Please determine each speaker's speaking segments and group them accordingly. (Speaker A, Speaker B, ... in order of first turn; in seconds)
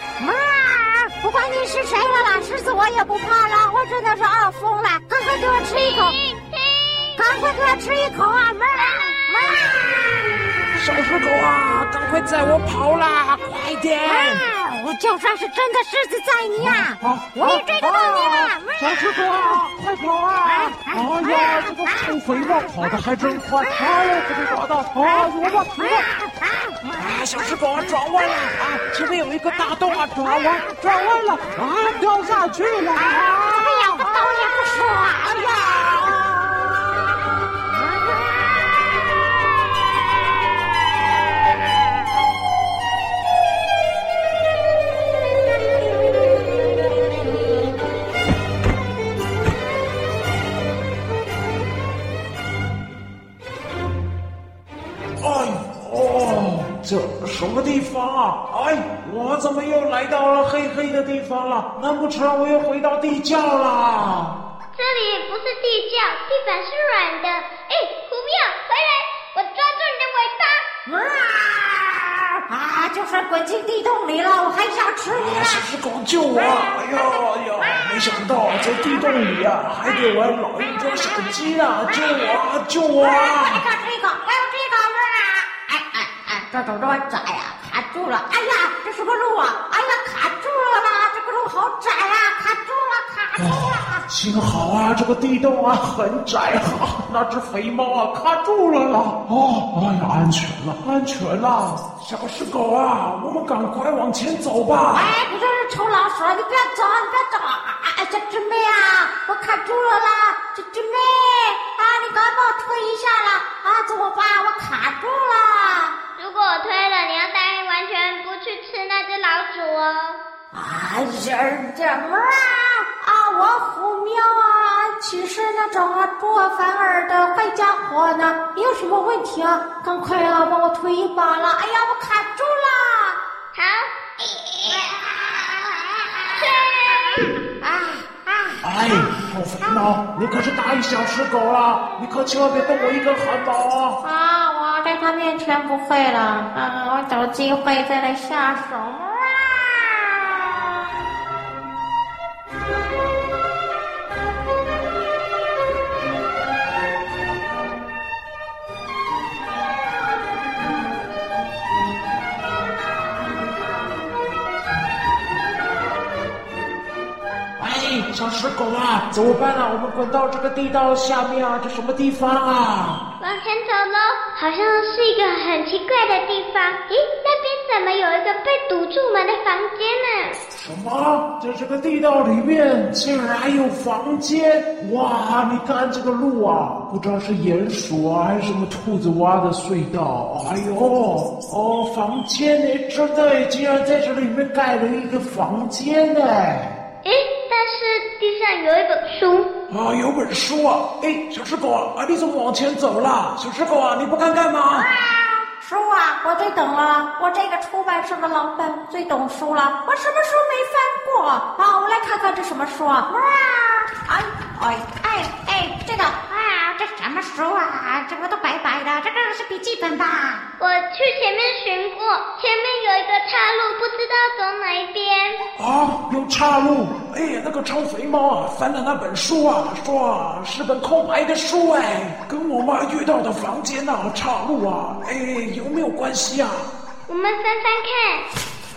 Speaker A: 0.2-6.2, 7.2-10.7, 14.0-19.6, 20.4-27.1, 29.5-31.5, 32.6-36.4, 37.7-38.9, 70.8-75.7, 76.3-79.3, 79.9-82.4, 83.0-94.0, 104.9-115.9, 120.5-133.2, 134.2-138.6, 139.6-139.9, 144.0-150.4, 204.7-220.4
Speaker B: 5.7-7.5, 8.8-9.8, 64.7-70.7, 116.2-120.2, 133.5-133.9, 136.3-137.4, 173.2-180.4, 197.0-199.5, 220.6-225.4, 237.1-238.2
Speaker C: 10.8-14.5, 16.6-26.1, 26.9-34.5, 35.2-36.6, 55.2-64.4, 75.1-83.6, 93.4-105.1, 138.6-144.0, 167.6-173.0, 180.5-196.8, 199.7-204.9, 225.6-236.7